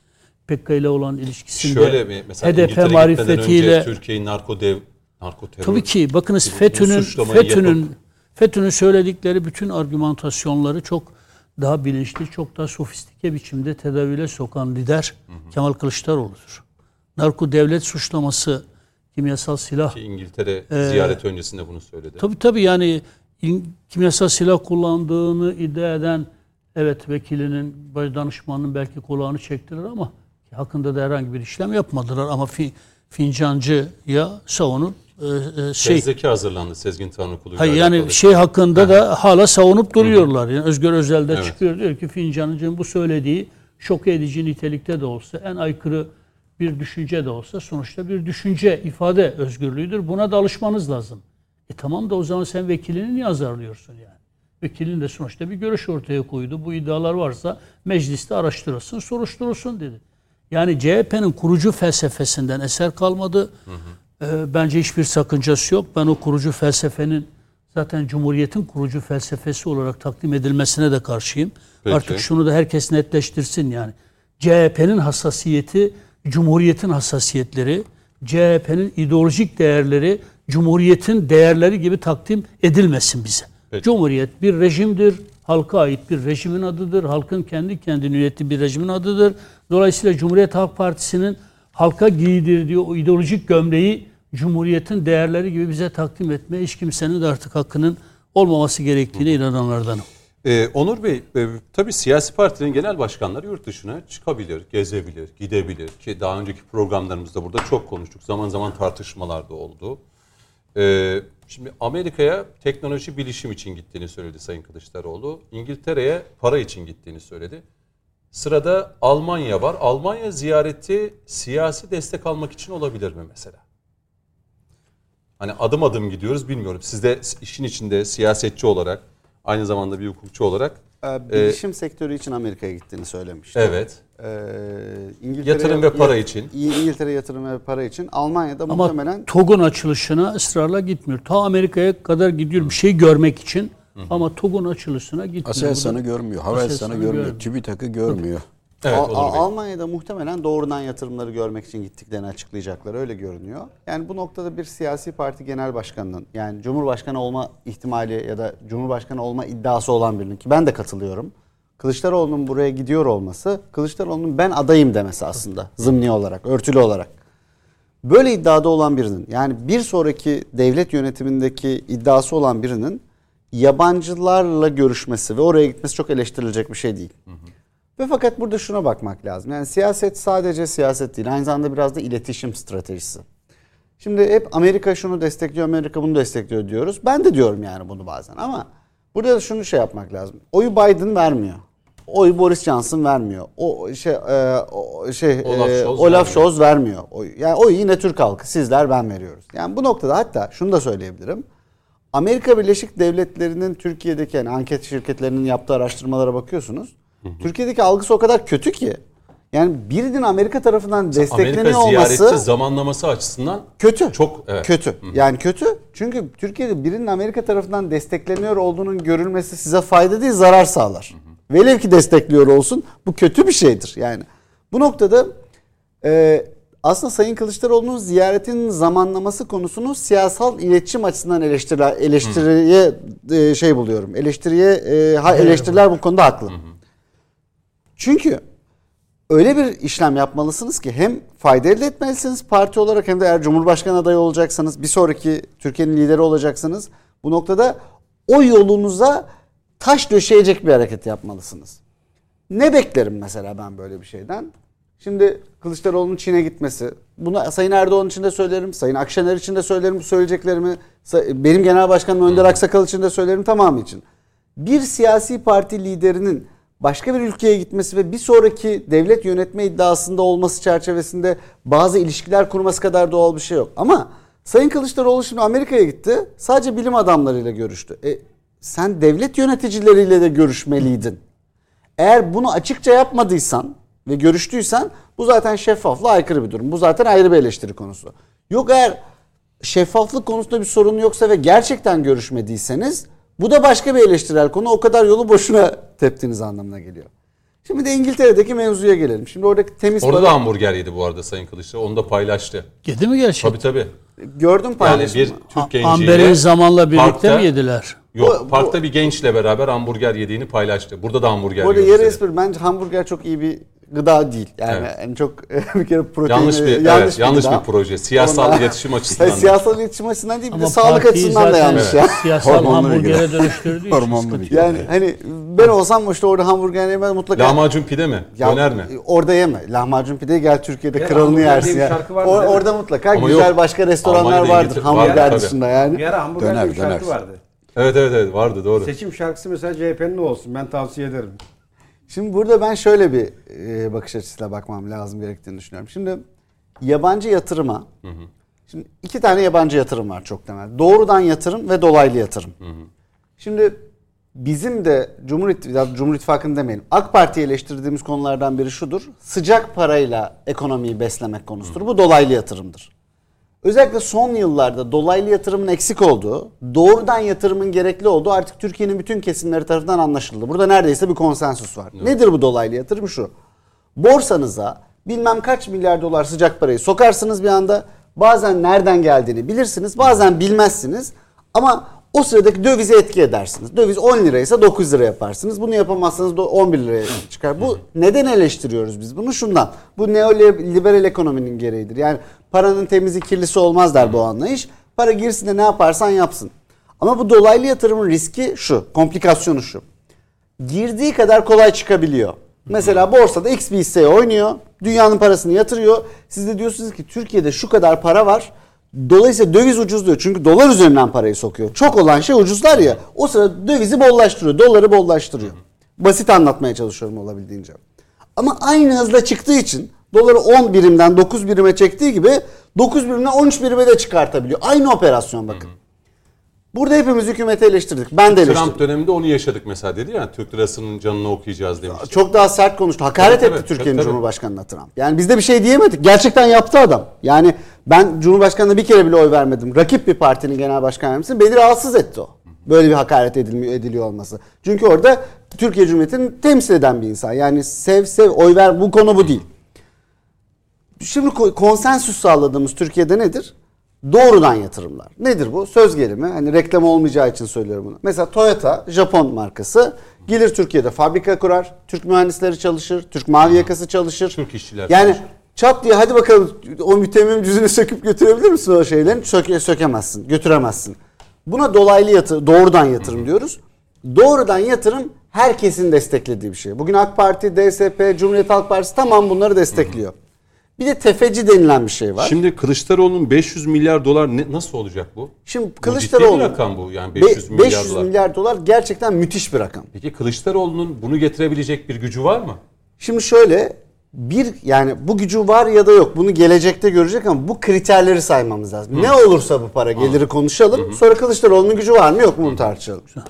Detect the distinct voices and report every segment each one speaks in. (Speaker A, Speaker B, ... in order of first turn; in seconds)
Speaker A: 0.5-3.9, 5.6-16.6, 17.2-18.6, 19.1-20.0, 20.7-21.2, 22.2-36.1, 37.6-60.0, 60.5-63.5, 64.2-100.0, 138.7-146.0, 146.5-147.5, 302.8-303.6, 305.6-308.0, 320.5-324.8
Speaker B: 1.6-5.9, 6.4-7.8, 19.9-22.2, 35.8-38.9, 40.0-40.2, 71.8-72.2, 100.4-110.0, 110.7-117.6, 118.3-123.6, 125.4-131.6, 133.5-134.0, 135.4-136.5, 148.8-149.5, 195.4-196.5, 211.1-215.2, 300.0-302.7, 303.4-303.9, 304.8-306.4, 306.9-307.5, 308.1-312.2, 316.2-319.6, 321.7-322.0, 327.3-328.9, 333.1-335.5, 337.8-338.9, 352.6-352.9, 428.3-432.2, 433.2-434.2, 464.3-465.2, 479.7-480.0, 482.2-488.1, 489.9-492.6, 499.9-500.2
Speaker C: 131.0-139.3, 148.9-167.1, 168.0-173.0, 173.5-177.1, 178.0-183.2, 184.0-201.4, 202.1-209.0, 209.5-212.4, 213.8-225.3, 226.0-236.6, 238.0-238.4, 239.3-249.2, 249.8-251.8, 252.5-264.0, 264.6-281.2, 282.0-289.0, 289.6-297.1, 297.6-300.4, 304.2-305.4, 308.2-308.8, 311.6-317.6, 318.2-322.7, 324.5-327.6, 328.4-336.0, 342.1-346.2, 346.8-347.9, 348.7-352.5, 353.4-353.8, 354.3-362.9, 363.6-373.3, 373.9-399.8, 400.6-417.8, 418.4-425.7, 426.7-428.8, 431.9-449.4, 451.0-453.5, 454.0-480.1, 480.8-482.4, 485.5-486.6, 487.1-489.9, 493.0-503.1
Speaker D: 145.4-148.4, 322.4-324.9, 336.4-337.1
Speaker E: 330.9-332.7, 335.0-335.4, 335.9-337.4, 338.8-341.4